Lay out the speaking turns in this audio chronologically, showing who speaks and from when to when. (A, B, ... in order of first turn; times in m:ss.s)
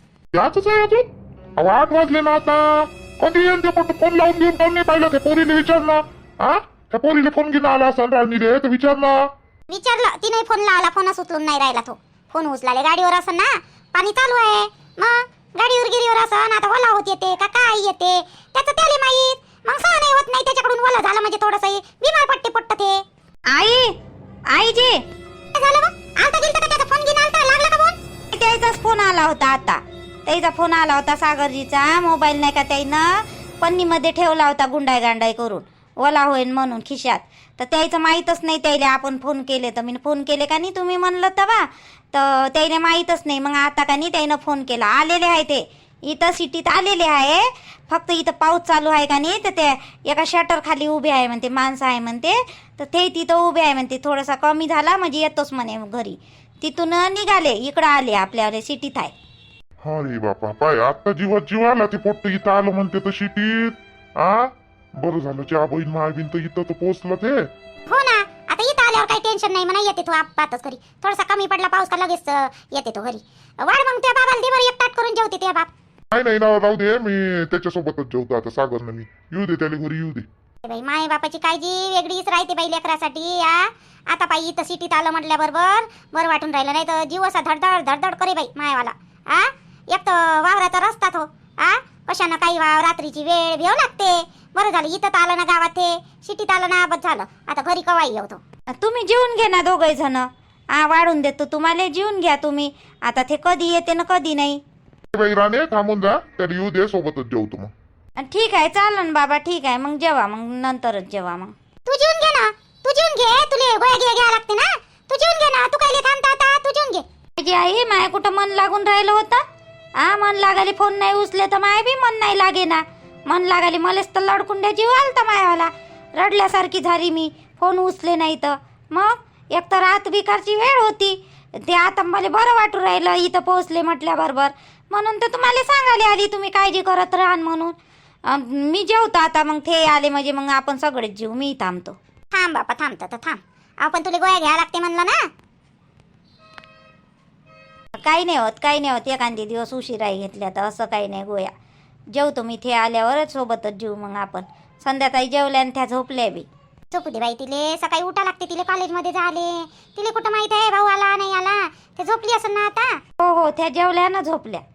0:00.3-0:09.2 A
0:09.7-0:23.0 B
0:23.5-0:23.9 C
0:24.5-0:25.0 C
0:25.5-0:28.0 B
0:28.3-0:59.1 C
0:59.8-1:07.5 A
1:07.9-1:15.7 B
1:16.1-1:20.2 A
1:20.6-1:38.4 B
1:38.7-1:44.6 C
1:45.1-1:47.7 A
1:48.2-1:51.5 C
1:51.9-1:57.0 B
1:57.4-1:59.4 C
2:00.0-2:17.7 C
2:18.2-2:22.0 C
2:22.3-2:25.2 B
2:28.0-2:31.5 C
2:32.1-2:36.5 C
2:36.9-2:43.0 B
2:43.2-2:44.6 C